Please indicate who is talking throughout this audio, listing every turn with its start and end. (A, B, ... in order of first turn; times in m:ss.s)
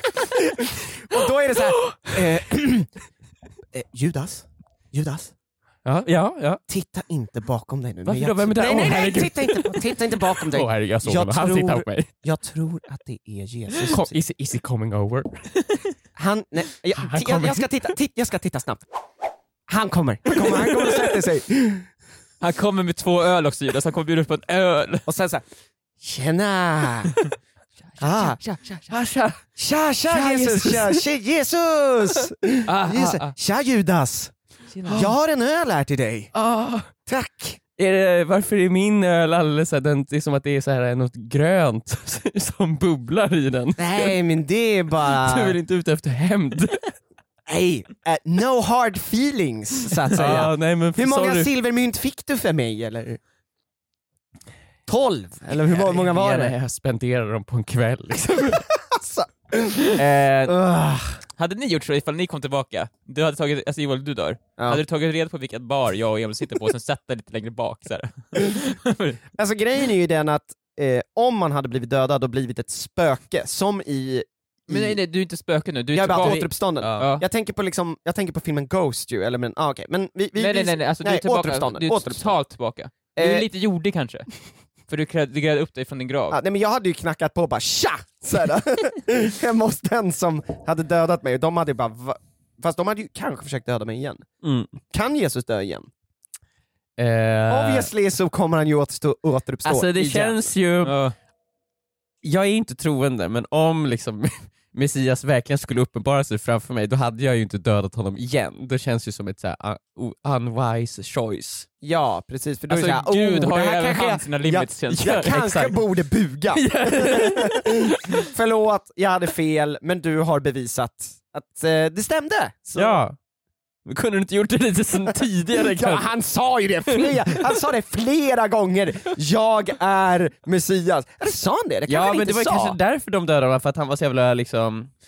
0:00.5-0:02.9 A
0:01.1-0:02.2 B
0:03.7-0:05.3 A
0:05.8-0:06.6 B
0:06.7-0:14.2 A
0:08.0-0:12.1 B
0:13.8-0:15.5 B
0:16.2-0:18.8 A
0:17.0-0:17.7 B
0:19.7-0:21.9 A
0:22.4-0:25.1 C
0:25.1-0:25.4 A
0:26.0-0:27.2 A
0:27.9-0:28.9 C
0:28.0-0:28.4 A
0:28.9-0:29.4 B
0:29.6-0:34.3 A
0:30.1-0:31.0 B
0:32.7-0:33.3 C
0:34.7-0:35.1 C
0:34.9-0:36.3 A
0:36.4-0:36.9 B
0:37.1-0:37.6 A
0:37.8-0:44.2 B
0:43.8-0:45.6 A
0:45.0-0:47.0 B
0:47.5-0:53.2 A
0:50.1-0:51.5 B
0:54.9-0:56.5 A
0:55.5-0:58.6 B
0:58.4-1:01.2 A
1:00.0-1:00.6 B
1:01.4-1:09.2 C
1:09.4-1:15.0 A
1:14.7-1:17.2 C
1:15.9-1:22.4 A
1:16.2-1:17.1 B
1:20.4-1:24.3 C
1:23.2-1:23.5 A
1:24.9-1:26.4 C
1:26.3-1:34.3 A
1:34.4-1:34.7 B
1:34.9-1:35.9 A
1:37.0-1:37.9 B
1:37.5-1:40.5 A
1:39.6-1:41.0 B
1:40.8-1:41.1 C
1:42.2-1:51.7 B
1:51.8-2:03.0 A
1:52.7-1:55.3 C
1:55.0-1:55.8 B
1:56.5-1:58.2 B
2:02.8-2:03.2 B
2:03.9-2:06.1 B
2:05.6-2:12.8 A
2:06.9-2:07.5 B
2:11.9-2:14.9 B